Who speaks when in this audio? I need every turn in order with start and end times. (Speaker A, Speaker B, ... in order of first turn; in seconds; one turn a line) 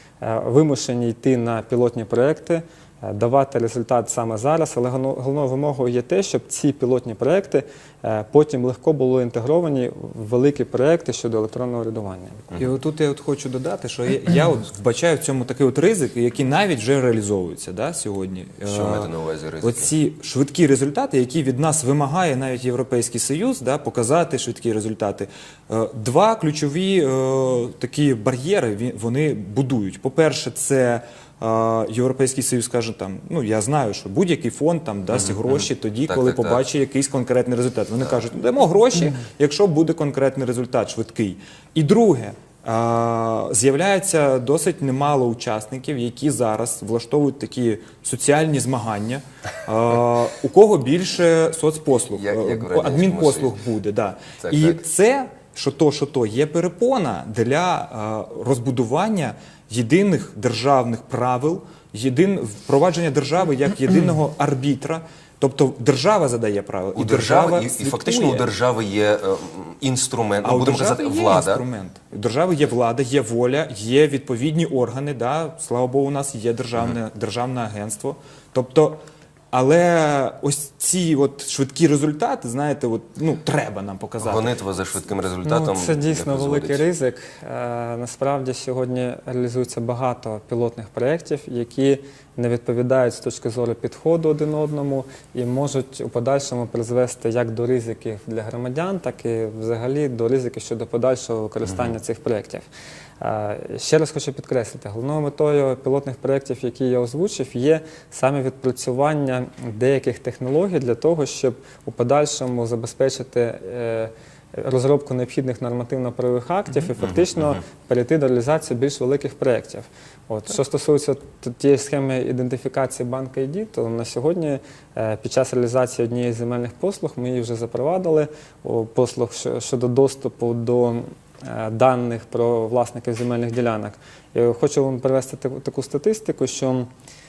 Speaker A: 0.2-12.5
Speaker B: 12.6-68.5
Speaker C: 18.6-19.9
Speaker C: 36.1-36.6
Speaker C: 52.1-53.5
Speaker C: 54.4-54.8
Speaker C: 67.0-71.6
Speaker B: 70.4-79.0
Speaker B: 79.5-84.5
Speaker C: 84.2-86.8
Speaker A: 85.4-102.7
Speaker A: 103.2-136.9